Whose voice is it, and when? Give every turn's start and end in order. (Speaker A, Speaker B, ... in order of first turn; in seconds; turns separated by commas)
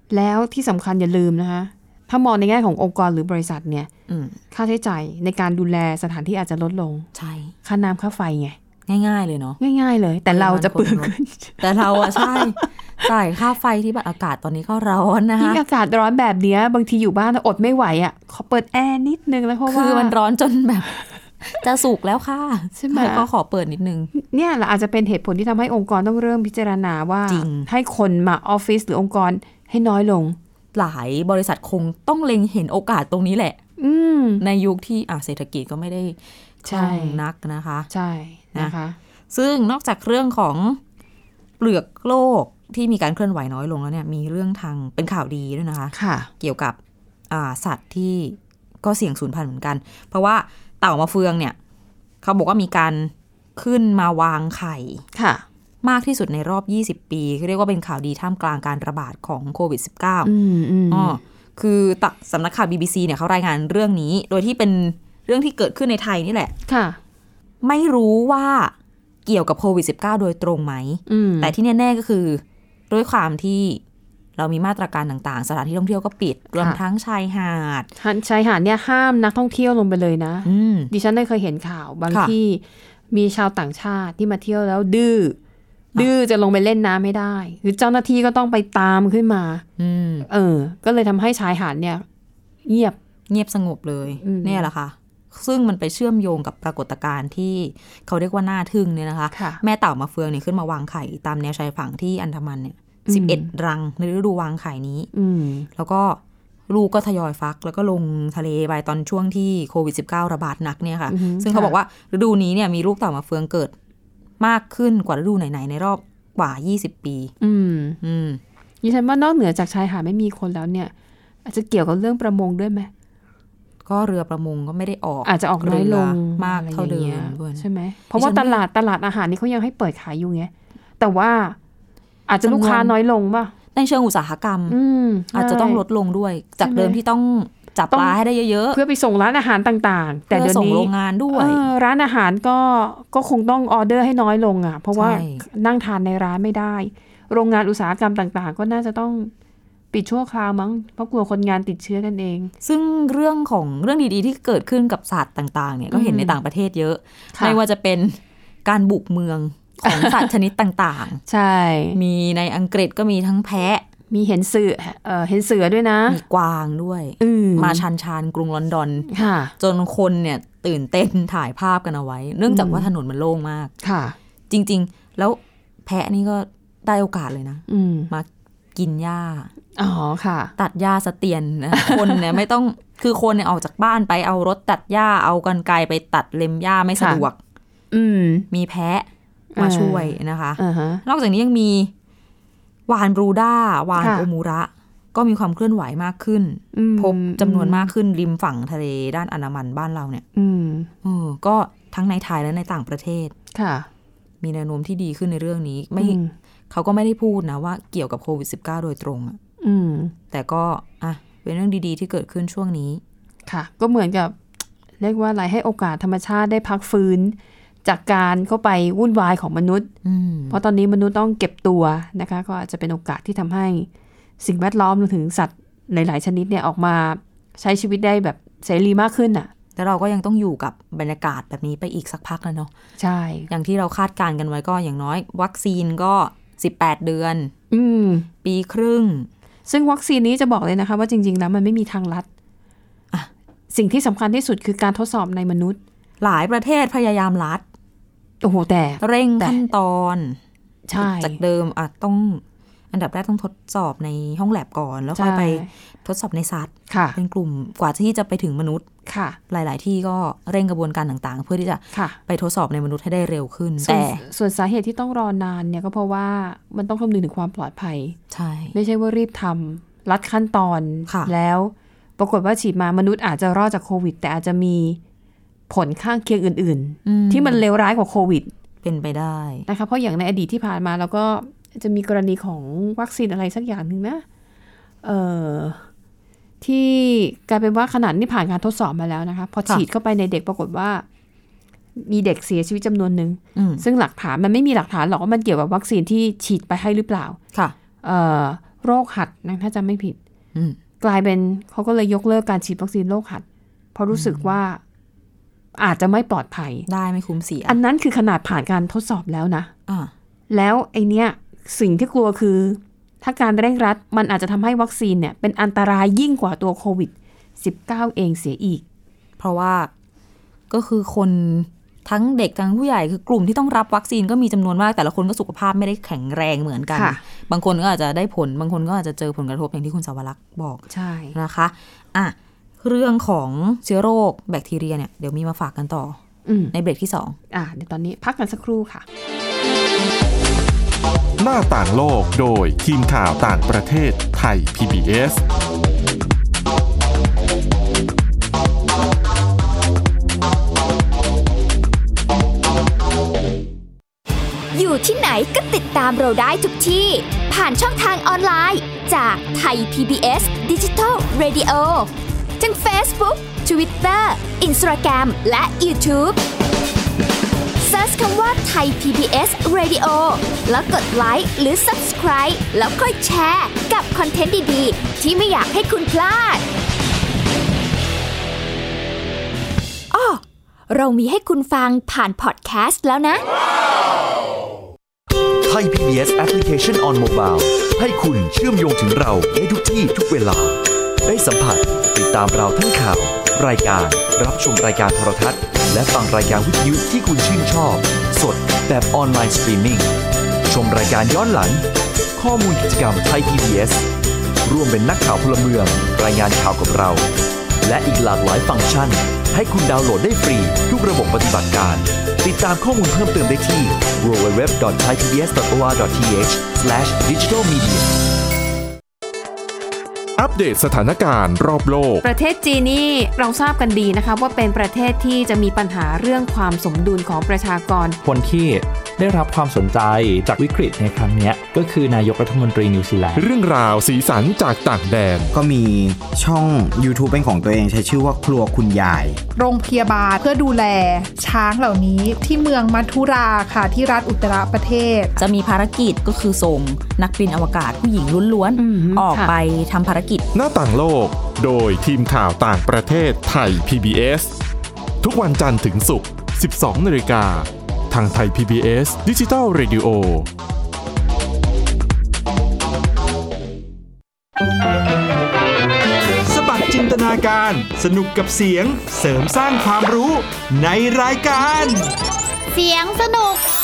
Speaker A: 0.1-3.9, Speaker B: 4.1-4.4, Speaker A: 4.5-7.1, Speaker B: 7.2-7.5, Speaker A: 7.6-8.6, Speaker B: 8.9-9.6, Speaker A: 9.6-12.7, Speaker B: 10.3-15.6, Speaker A: 15.4-20.2, Speaker B: 19.7-20.9, Speaker B: 21.4-24.1, Speaker A: 22.8-23.3, Speaker A: 24.1-30.4, Speaker B: 27.3-27.7, Speaker B: 30.7-33.6, Speaker A: 33.8-34.4, Speaker B: 34.4-37.9, Speaker A: 36.6-37.2, Speaker A: 37.9-39.0, Speaker B: 39.3-40.8, Speaker B: 41.6-46.8, Speaker A: 45.9-46.3, Speaker B: 47.3-51.6, Speaker B: 52.2-55.0, Speaker A: 55.1-55.5, Speaker B: 55.8-60.3, Speaker A: 60.2-61.2, Speaker B: 60.9-66.5, Speaker A: 66.7-67.0, Speaker B: 67.6-68.7, Speaker B: 69.3-73.8, Speaker A: 71.1-71.5, Speaker B: 74.4-77.9, Speaker A: 78.0-85.4, Speaker B: 80.5-80.9, Speaker A: 85.9-89.7, Speaker B: 89.8-90.3, Speaker A: 90.3-92.0, Speaker A: 92.7-93.0, Speaker B: 93.3-105.1, Speaker A: 94.2-94.7, Speaker A: 99.3-99.6, Speaker A: 103.1-103.5, Speaker A: 105.1-105.7, Speaker B: 105.8-113.7, Speaker A: 111.1-111.8, Speaker B: 114.4-117.3, Speaker A: 117.4-118.0, Speaker B: 118.0-118.4, Speaker A: 118.8-120.9, Speaker A: 121.5-122.9, Speaker B: 123.8-128.6, Speaker A: 125.2-131.6, Speaker A: 132.3-133.5, Speaker B: 132.4-132.9, Speaker B: 133.7-134.8, Speaker A: 134.7-135.8, Speaker B: 135.3-138.8, Speaker A: 136.6-137.0, Speaker A: 137.9-138.2, Speaker A: 138.7-149.3, Speaker B: 140.3-141.6, Speaker B: 144.9-145.4, Speaker A: 149.9-152.5, Speaker B: 152.6-161.2, Speaker A: 155.9-156.4, Speaker A: 159.8-160.3, Speaker A: 161.3-162.0, Speaker B: 161.9-163.8, Speaker A: 164.1-166.2, Speaker B: 166.1-169.1, Speaker A: 167.2-167.8, Speaker A: 169.1-169.5, Speaker B: 169.6-173.7, Speaker A: 172.5-172.9, Speaker A: 173.8-174.2, Speaker B: 174.5-179.5, Speaker A: 177.7-178.1, Speaker A: 179.8-180.5, Speaker B: 180.6-187.4, Speaker A: 181.7-182.3, Speaker A: 187.0-187.2, Speaker A: 187.9-188.5, Speaker B: 188.5-191.9, Speaker A: 189.5-191.0, Speaker B: 192.9-200.2, Speaker A: 194.0-194.3, Speaker A: 196.7-197.9, Speaker A: 200.3-200.9, Speaker B: 201.0-203.3, Speaker A: 203.5-203.9, Speaker B: 204.4-206.2, Speaker A: 206.0-206.3, Speaker B: 206.7-209.4, Speaker A: 209.6-210.1, Speaker B: 210.3-213.0, Speaker A: 213.5-214.4, Speaker A: 215.0-219.9, Speaker B: 220.0-220.6, Speaker A: 220.5-223.9, Speaker A: 224.4-229.5, Speaker B: 229.8-232.7, Speaker A: 233.0-233.5, Speaker B: 233.5-237.5, Speaker A: 237.7-238.3, Speaker B: 238.4-239.3, Speaker A: 239.7-242.3, Speaker A: 243.7-245.8, Speaker B: 246.2-247.6, Speaker A: 248.4-249.6, Speaker B: 249.0-250.4, Speaker A: 250.9-251.4, Speaker B: 250.9-258.9, Speaker A: 255.2-255.7, Speaker A: 256.9-257.2, Speaker A: 259.1-259.4, Speaker B: 259.5-264.2, Speaker A: 261.9-262.2, Speaker A: 263.8-268.2, Speaker B: 268.3-268.8, Speaker A: 268.7-275.0, Speaker B: 271.1-271.3, Speaker A: 275.7-278.5, Speaker B: 277.1-277.6, Speaker B: 278.8-279.7, Speaker A: 279.7-284.2, Speaker A: 285.0-285.9, Speaker A: 286.6-291.1, Speaker A: 292.0-297.4, Speaker B: 293.6-293.9, Speaker A: 298.0-300.2, Speaker A: 301.0-304.8, Speaker B: 304.1-304.6, Speaker A: 305.8-306.9, Speaker B: 306.9-307.8, Speaker A: 307.7-309.7, Speaker B: 309.9-310.1, Speaker A: 310.5-318.8, Speaker B: 319.4-319.9, Speaker B: 320.7-330.8, Speaker A: 326.9-327.2, Speaker A: 330.9-331.4, Speaker B: 331.3-336.2, Speaker A: 336.5-336.7, Speaker B: 336.7-337.4, Speaker A: 337.5-339.1, Speaker C: 341.4-345.4, Speaker D: 354.7-366.4, Speaker D: 367.8-376.6, Speaker D: 380.1-383.4, Speaker E: 385.6-400.1, Speaker E: 400.7-404.1, Speaker E: 404.6-407.3, Speaker E: 407.8-418.1, Speaker C: 420.4-422.2, Speaker A: 422.2-428.2, Speaker F: 428.2-433.5, Speaker C: 433.4-435.5, Speaker G: 435.5-439.4, Speaker H: 439.6-445.4, Speaker B: 445.4-450.5, Speaker A: 448.8-449.5, Speaker C: 450.5-454.6, Speaker C: 455.2-460.5, Speaker I: 466.5-472.1, Speaker D: 472.8-473.6